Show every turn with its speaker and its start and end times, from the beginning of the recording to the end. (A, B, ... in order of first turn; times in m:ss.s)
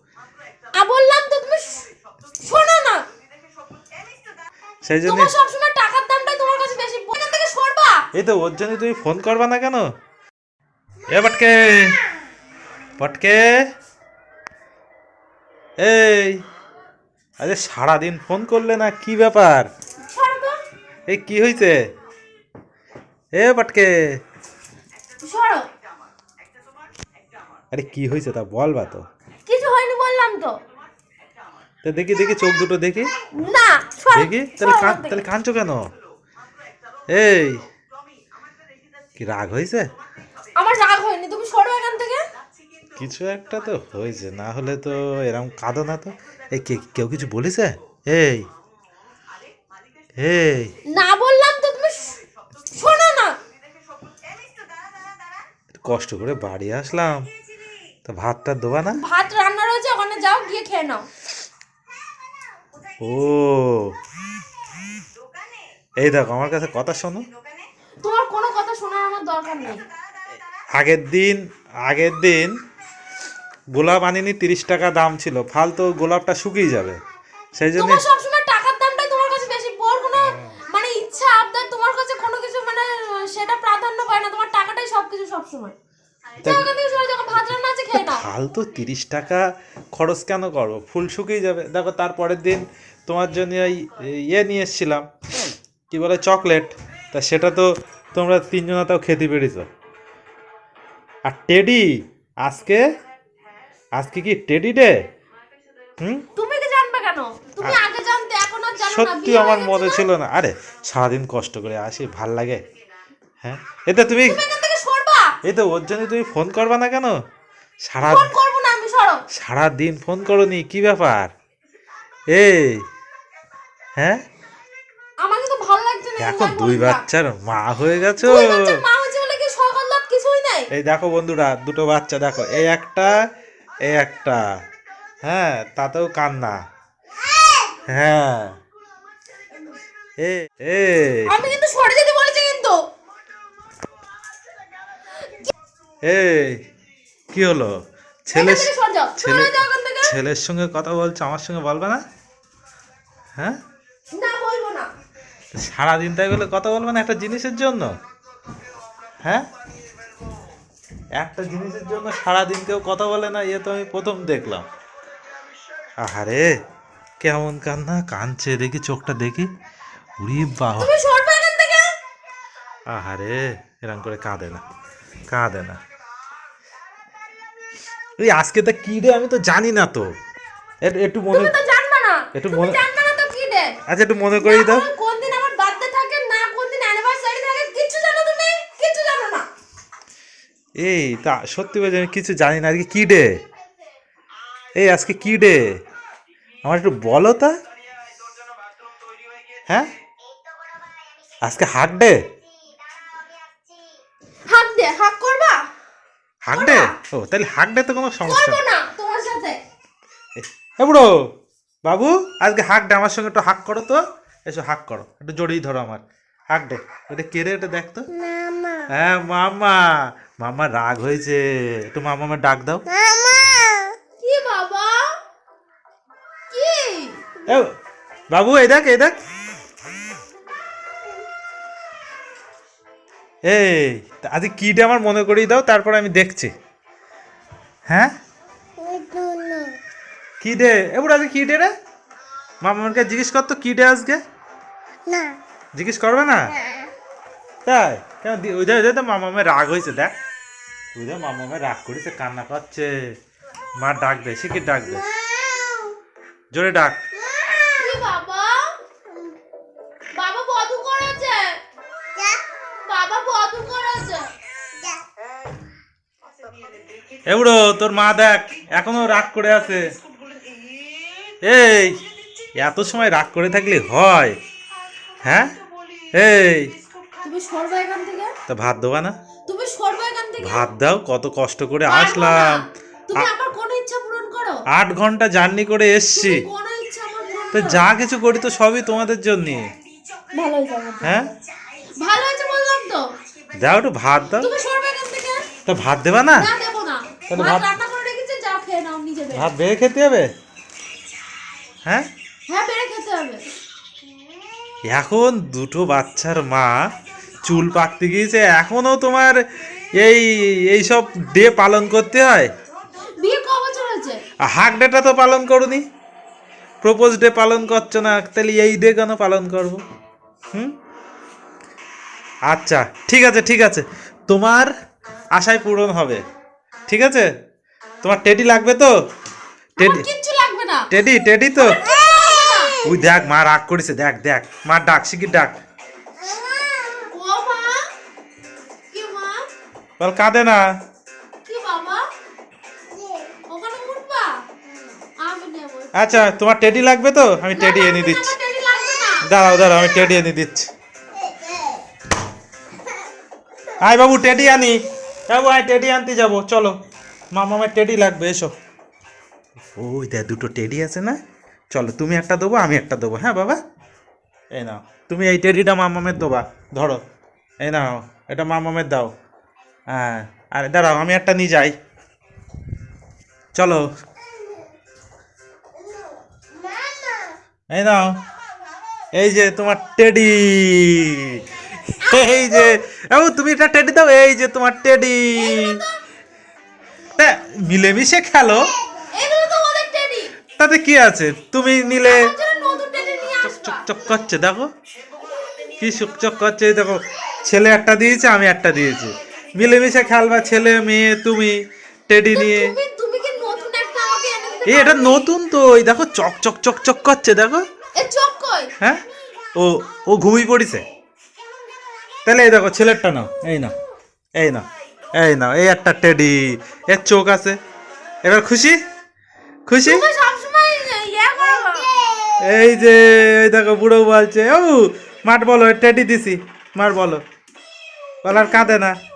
0:00.7-0:01.9 A
0:02.4-0:03.0 A
0:04.8-0:05.3 B
0:05.0-0:08.1 A
0:08.1-0:09.9 B
0:11.1-0:12.0 B
0:13.0-0:13.5 B
0:15.8-0:16.4 B
0:17.4-0:19.7 B
0:20.1-0:20.6 A
0:21.1-0:21.8 B
0:23.4-0:23.9 B
0:25.2-0:25.6 A
0:27.7-0:29.0 B
0:29.4-0:30.6 A
0:31.8-0:33.1 B
0:33.3-0:35.2 A
0:34.1-0:35.8 B
0:37.1-0:37.6 B
0:39.2-0:39.8 B
0:40.6-0:42.2 A
0:43.0-0:48.4 B
0:50.2-0:50.7 B
0:50.9-0:52.2 A
0:52.7-0:53.3 A
0:55.7-0:57.3 B
0:58.0-0:59.0 B
0:59.0-1:01.0 A
1:03.0-1:03.9 B
1:06.0-1:07.2 B
1:08.0-1:09.8 A
1:10.7-1:12.6 B
1:13.7-1:17.0 B
1:17.5-1:18.0 B
1:17.8-1:25.7 A
1:20.3-1:20.5 B
1:26.4-1:26.7 B
1:26.4-1:28.2 A
1:27.9-1:35.1 B
1:35.9-1:39.7 B
1:41.3-1:41.9 B
1:42.4-1:42.8 B
1:43.9-1:45.0 B
1:46.0-1:46.2 B
1:46.4-1:50.1 A
1:48.8-1:52.6 B
1:53.4-1:54.4 B
1:54.2-1:55.4 A
1:55.4-1:57.1 B
1:57.8-1:58.4 B
1:58.0-1:59.2 A
1:59.3-2:01.3 B
2:02.3-2:02.8 B
2:05.2-2:07.0 A
2:06.2-2:08.8 B
2:08.2-2:10.7 A
2:10.7-2:13.2 B
2:13.8-2:14.4 B
2:15.2-2:16.6 B
2:17.9-2:18.6 B
2:20.2-2:21.3 B
2:21.3-2:22.8 A
2:26.0-2:26.6 B
2:27.3-2:32.0 B
2:28.3-2:30.2 A
2:34.1-2:34.9 A
2:35.6-2:37.9 B
2:41.2-2:44.6 B
2:46.0-2:46.5 B
2:47.2-2:49.5 B
2:50.2-2:50.9 B
2:50.8-2:51.9 A
2:52.9-2:54.6 B
2:55.3-2:55.8 B
2:58.2-3:00.1 B
3:00.8-3:01.6 B
3:01.3-3:03.7 A
3:02.3-3:02.8 B
3:03.9-3:04.9 B
3:04.4-3:09.5 A
3:10.8-3:13.3 B
3:14.8-3:15.7 B
3:16.6-3:17.5 B
3:21.4-3:22.2 B
3:24.5-3:25.6 A
3:26.4-3:28.6 B
3:26.5-3:27.0 A
3:28.2-3:29.6 A
3:30.4-3:31.1 B
3:31.8-3:38.1 B
3:38.4-3:38.8 C
3:38.9-3:42.8 B
3:43.1-3:43.8 C
3:44.2-3:45.1 A
3:46.5-3:47.2 A
3:47.4-3:47.7 B
3:48.3-3:49.2 B
3:53.4-3:56.5 B
3:57.9-3:58.1 B
3:58.8-3:59.8 C
4:00.4-4:01.7 B
4:02.6-4:04.2 B
4:05.1-4:05.4 C
4:05.7-4:06.6 B
4:07.6-4:10.1 B
4:10.9-4:12.9 B
4:13.8-4:15.0 B
4:15.3-4:15.9 C
4:16.5-4:17.0 B
4:17.3-4:17.7 C
4:17.8-4:18.6 A
4:20.1-4:21.5 A
4:22.8-4:24.3 A
4:27.3-4:29.9 B
4:31.4-4:32.0 B
4:32.6-4:34.4 B
4:35.2-4:35.5 B
4:36.2-4:36.7 B
4:37.2-4:38.3 A
4:38.5-4:39.1 B
4:39.5-4:40.7 A
4:40.4-4:42.6 B
4:41.9-4:44.6 A
4:44.7-4:46.4 B
4:46.1-4:47.8 A
4:47.5-4:49.7 B
4:50.3-4:51.2 A
4:51.0-4:51.3 B
4:52.0-4:53.0 A
4:53.6-4:54.5 B
4:54.4-4:55.4 A
4:55.6-4:56.5 B
4:56.4-4:59.5 A
4:57.3-4:57.7 B
4:59.3-5:00.3 B
5:02.5-5:03.4 A
5:04.9-5:06.8 B
5:07.4-5:09.4 B
5:09.9-5:12.5 B
5:13.2-5:14.2 A
5:14.4-5:15.8 B
5:16.8-5:19.8 B
5:22.5-5:24.7 B
5:25.3-5:26.2 B
5:26.9-5:27.3 B
5:28.0-5:29.0 B
5:29.8-5:30.1 B
5:29.8-5:30.9 A
5:30.9-5:31.9 B
5:31.6-5:32.8 A
5:32.8-5:35.6 B
5:36.2-5:37.0 C
5:37.0-5:37.8 A
5:38.9-5:39.4 A
5:40.0-5:40.6 B
5:41.4-5:42.0 A
5:43.5-5:44.4 A
5:45.2-5:46.3 A
5:45.9-5:48.4 B
5:47.5-5:49.3 A
5:49.2-5:50.7 B
5:53.8-5:56.8 B
5:57.3-5:58.5 B
5:59.7-6:01.2 B
6:01.7-6:03.6 B
6:04.5-6:07.0 B
6:07.6-6:09.1 B
6:09.9-6:11.8 B
6:13.5-6:13.9 B
6:16.6-6:17.3 C
6:17.7-6:18.2 B
6:19.1-6:25.8 B
6:22.0-6:22.8 A
6:25.4-6:26.0 A
6:27.2-6:28.7 B
6:29.1-6:30.3 A
6:30.6-6:32.3 B
6:32.0-6:33.9 A
6:33.2-6:34.7 B
6:35.8-6:42.7 B
6:42.3-6:45.2 A
6:44.7-6:47.6 B
6:48.0-6:48.7 A
6:49.5-6:50.8 B
6:52.2-6:53.7 B
6:54.4-6:54.6 B
6:55.2-6:57.6 B
6:58.2-6:58.8 B
6:59.7-7:00.1 B
6:59.8-7:02.0 A
7:02.4-7:07.2 B
7:08.2-7:09.0 B